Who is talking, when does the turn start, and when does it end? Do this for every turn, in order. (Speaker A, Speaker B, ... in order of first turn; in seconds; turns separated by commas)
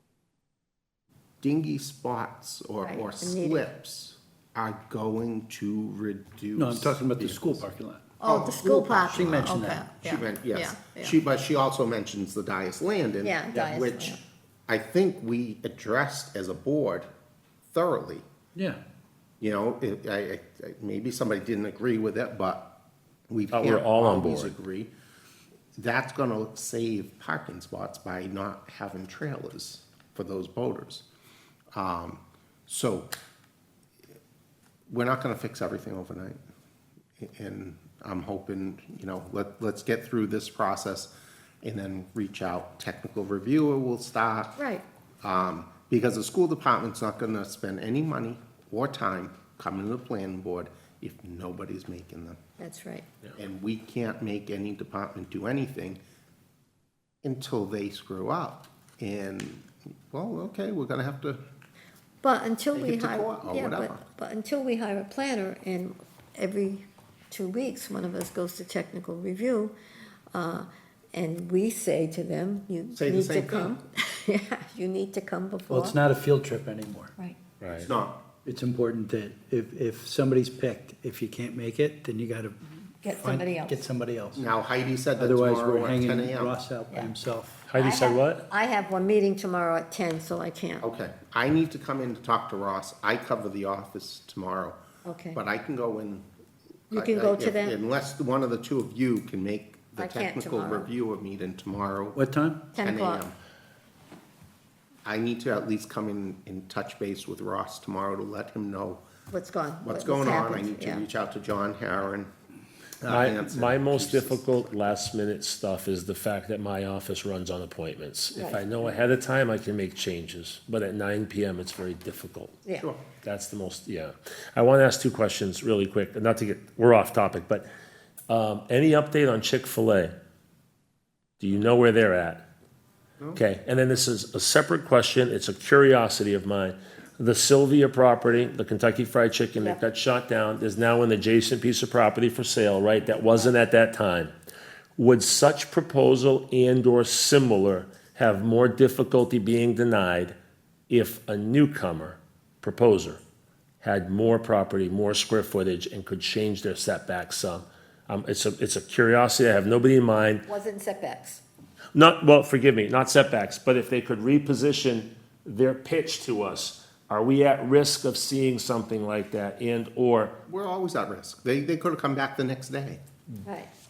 Speaker A: 1.4-7.7, Speaker B: 2.8-3.7, Speaker C: 6.5-8.1, Speaker B: 8.2-11.2, Speaker A: 8.2-17.1, Speaker C: 9.1-9.9, Speaker B: 13.2-14.2, Speaker A: 17.7-18.2, Speaker A: 19.4-22.7, Speaker A: 23.3-24.9, Speaker D: 23.5-24.6, Speaker A: 25.8-31.1, Speaker A: 31.7-33.1, Speaker A: 34.9-36.4, Speaker A: 37.2-41.1, Speaker A: 41.6-44.6, Speaker B: 44.6-44.8, Speaker A: 45.2-52.4, Speaker B: 52.6-53.0, Speaker A: 53.4-56.0, Speaker A: 57.2-61.4, Speaker B: 62.2-69.8, Speaker A: 62.7-64.0, Speaker B: 70.3-76.0, Speaker A: 72.9-73.8, Speaker C: 75.7-77.1, Speaker D: 77.6-77.9, Speaker A: 77.7-78.2, Speaker C: 78.4-84.5, Speaker B: 83.0-83.8, Speaker A: 84.4-86.6, Speaker C: 85.2-87.7, Speaker D: 87.7-88.5, Speaker B: 87.7-90.8, Speaker A: 90.8-94.8, Speaker B: 95.0-95.4, Speaker A: 95.3-96.2, Speaker B: 96.9-97.8, Speaker A: 96.9-102.2, Speaker B: 100.0-100.9, Speaker C: 102.1-102.6, Speaker B: 102.7-103.2, Speaker A: 102.8-103.3, Speaker A: 105.1-109.0, Speaker B: 109.3-111.1, Speaker A: 109.8-112.3, Speaker A: 113.0-114.6, Speaker D: 113.1-122.6, Speaker B: 118.3-118.6, Speaker A: 122.8-123.0, Speaker D: 123.2-127.7, Speaker D: 128.3-130.1, Speaker D: 131.4-132.4, Speaker D: 133.3-144.3, Speaker D: 145.0-150.3, Speaker D: 150.9-153.2, Speaker D: 153.8-160.5, Speaker B: 160.5-161.4, Speaker D: 161.9-170.3, Speaker A: 170.5-173.0, Speaker B: 173.4-173.7